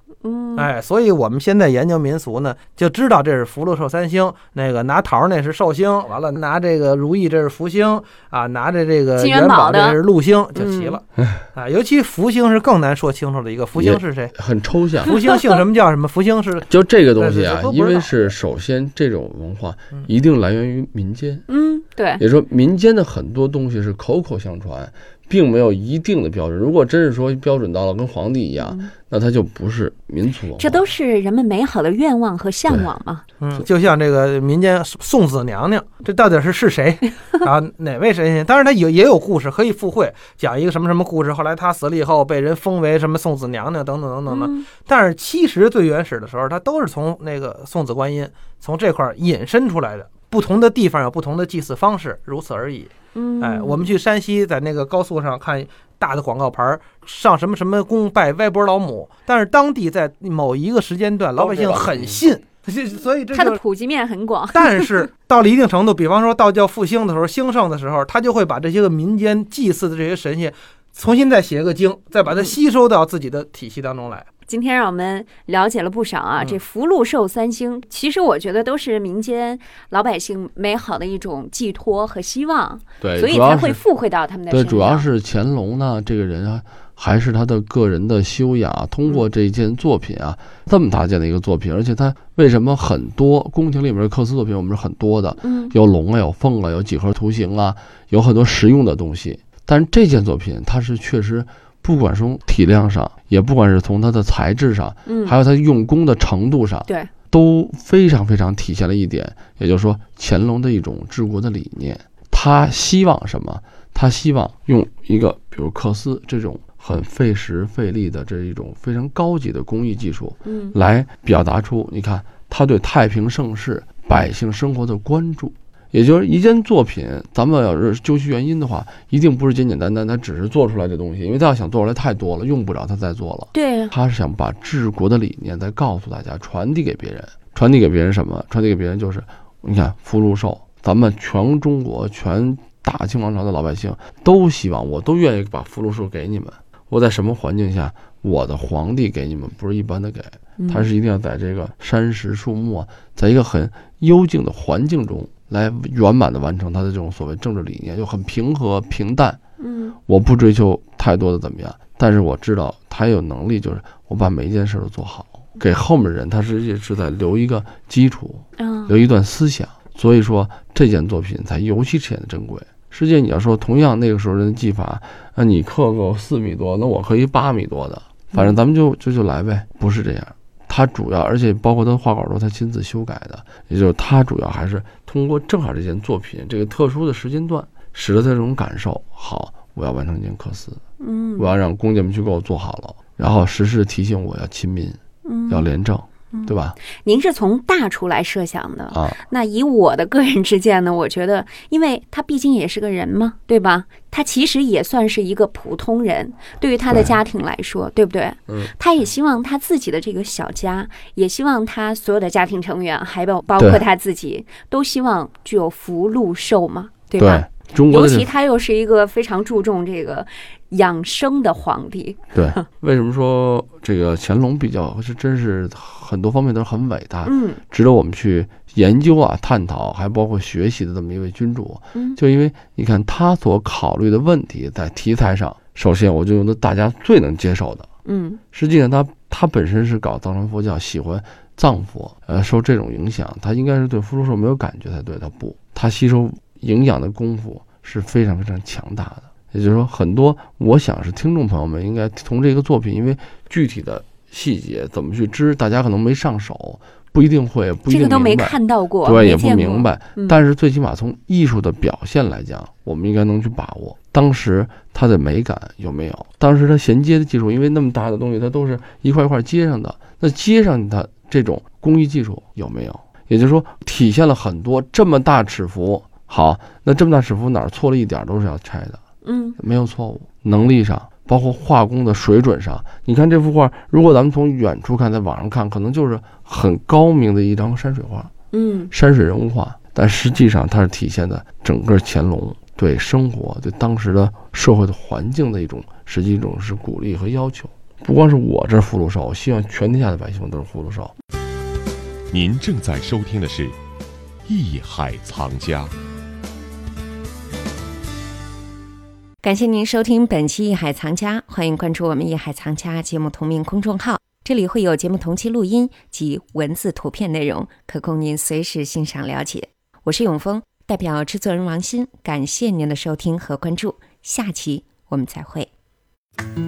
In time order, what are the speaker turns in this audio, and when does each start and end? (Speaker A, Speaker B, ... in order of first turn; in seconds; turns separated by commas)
Speaker A: 0.2-0.7, Speaker B: 0.6-14.3, Speaker A: 9.2-10.0, Speaker A: 10.6-11.0, Speaker C: 13.7-15.2, Speaker B: 15.1-18.3, Speaker C: 16.7-21.4, Speaker A: 21.5-22.2, Speaker C: 22.2-30.9, Speaker A: 28.6-28.9, Speaker A: 30.6-33.2, Speaker B: 33.4-63.6, Speaker A: 44.3-44.7, Speaker A: 53.1-53.9, Speaker C: 61.4-62.2, Speaker A: 63.3-64.9, Speaker B: 64.5-74.3, Speaker A: 74.5-85.0, Speaker C: 83.0-83.8, Speaker C: 84.5-159.4, Speaker A: 95.4-95.7, Speaker A: 105.0-105.3, Speaker A: 120.4-120.7, Speaker A: 133.5-133.9, Speaker A: 150.6-150.9, Speaker A: 159.6-160.0, Speaker C: 160.1-190.8, Speaker A: 168.6-168.9, Speaker A: 191.0-191.5, Speaker C: 191.4-196.8, Speaker A: 195.2-195.7, Speaker A: 196.3-222.6, Speaker C: 198.9-199.2, Speaker C: 206.9-207.2, Speaker C: 217.2-218.3, Speaker C: 222.3-237.9, Speaker A: 227.2-227.6, Speaker A: 238.1-238.4, Speaker C: 238.5-279.0, Speaker A: 257.9-260.4, Speaker A: 279.2-279.6, Speaker C: 279.6-288.3, Speaker A: 288.5-288.9, Speaker C: 288.9-301.1, Speaker D: 302.3-303.8, Speaker D: 304.4-305.9, Speaker E: 309.4-325.7